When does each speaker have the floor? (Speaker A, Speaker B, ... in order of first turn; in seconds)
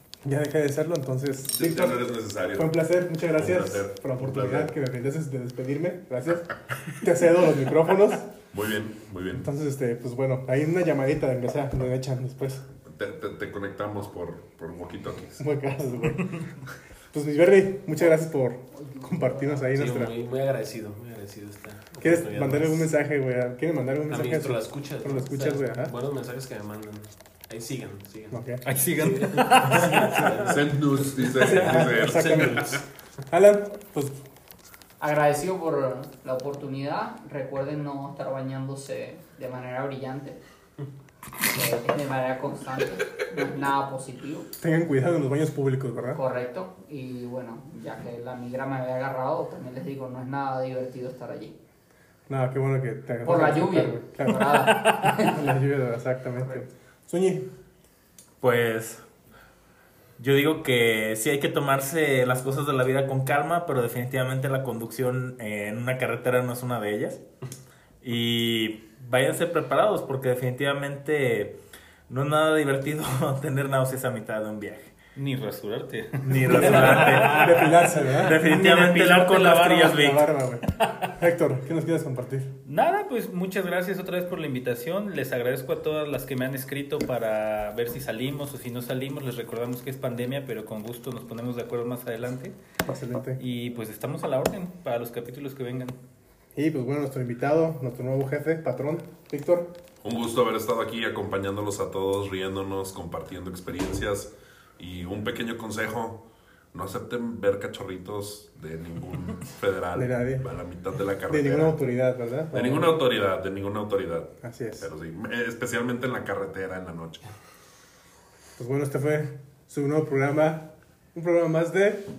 Speaker A: 0.2-8.3, 9.3-12.7, 15.4-16.3, 17.1-20.1, 22.0-25.9, 28.3-28.6, 31.4-34.2, 44.6-46.2, 52.3-57.5, 76.3-78.6, 79.3-82.5, 92.8-93.4, 96.5-99.7, 109.9-110.5, 111.3-112.9, 114.4-114.9, 118.6-122.0
Speaker B: 1.5-2.8, 3.3-4.7, 8.5-9.5, 12.9-15.4, 30.4-32.8, 100.0-111.8, 112.5-117.2
Speaker C: 18.7-19.6, 35.0-40.4, 41.5-44.5, 46.1-51.5, 53.2-55.4
Speaker D: 19.7-22.9, 24.1-32.6
Speaker E: 28.6-30.3, 75.2-77.5, 78.4-80.1, 82.7-92.5, 93.4-96.0
Speaker F: 58.4-59.0, 60.2-67.2, 68.0-71.5, 72.1-75.0, 76.2-77.6, 78.2-80.2